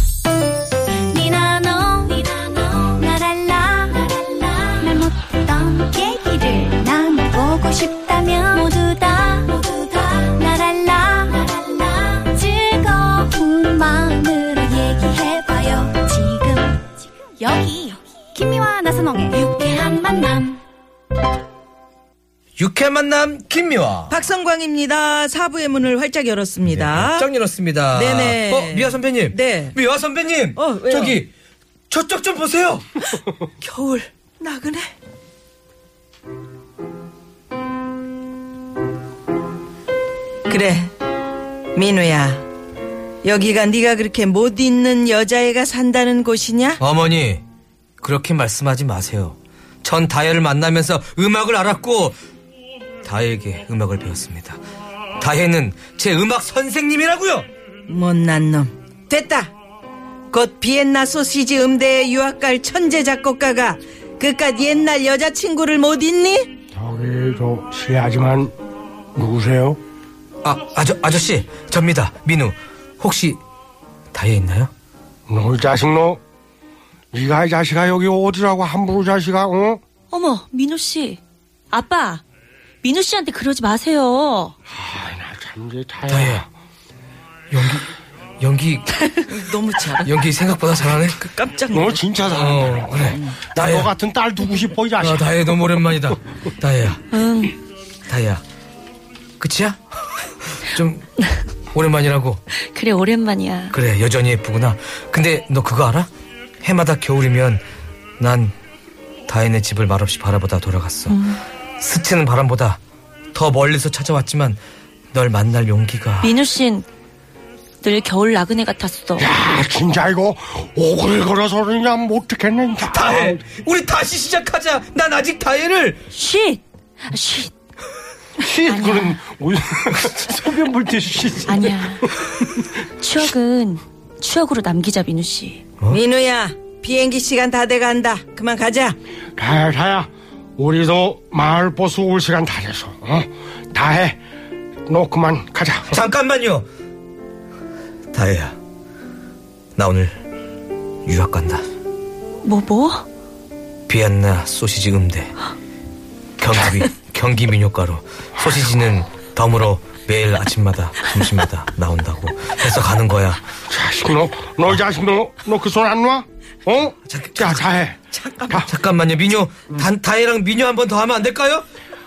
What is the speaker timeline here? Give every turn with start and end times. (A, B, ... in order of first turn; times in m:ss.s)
0:01.1-0:16.6 A
0:17.4-0:20.5 A
0:22.6-0:24.2 B
0:24.1-0:27.3 C
0:26.7-0:31.3 B
0:27.9-0:29.8 C
0:30.6-0:31.2 C
0:31.9-0:32.9 B
0:33.0-0:34.9 C
0:40.5-0:40.9 C
0:41.7-0:42.5 C
0:43.2-0:46.8 C
0:46.8-0:47.4 B
0:48.0-0:52.2 B
0:53.0-0:54.6 B
0:55.2-0:57.5 B
0:57.9-0:59.5 C
1:00.3-1:06.5 C
1:06.7-1:08.5 D
1:09.2-1:09.8 D
1:10.4-1:13.4 B
1:14.1-1:14.7 B
1:15.3-1:16.2 D
1:17.1-1:19.8 D
1:20.1-1:21.2 E
1:21.7-1:22.2 E
1:22.8-1:24.6 E
1:24.7-1:26.5 D
1:26.1-1:26.4 B
1:27.5-1:29.1 B
1:29.3-1:30.2 C
1:30.0-1:31.2 B
1:30.9-1:33.5 C
1:31.7-1:35.7 D
1:32.3-1:33.9 B
1:35.0-1:37.0 B
1:37.1-1:37.6 E
1:38.1-1:38.4 B
1:39.4-1:41.1 B
1:41.7-1:42.4 B
1:42.6-1:43.8 E
1:43.7-1:46.1 B
1:46.6-1:47.6 B
1:48.2-1:48.5 B
1:49.3-1:52.8 B
1:51.1-1:51.4 E
1:53.3-1:54.6 B
1:55.1-1:56.4 B
1:56.2-1:56.9 E
1:57.8-1:59.3 E
1:59.2-2:03.4 D
2:02.8-2:06.0 B
2:06.1-2:07.5 E
2:08.4-2:12.6 D
2:08.7-2:09.2 E
2:11.5-2:12.1 E
2:12.9-2:15.6 E
2:15.9-2:19.0 C
2:19.4-2:24.2 D
2:24.9-2:26.0 D
2:25.9-2:26.7 B
2:28.1-2:28.6 B
2:29.8-2:30.2 B
2:31.0-2:31.6 B
2:32.4-2:33.0 E
2:33.9-2:35.4 B
2:36.4-2:43.5 B
2:43.7-2:48.7 D
2:47.1-2:47.7 B
2:48.1-2:48.7 C
2:48.7-2:51.7 B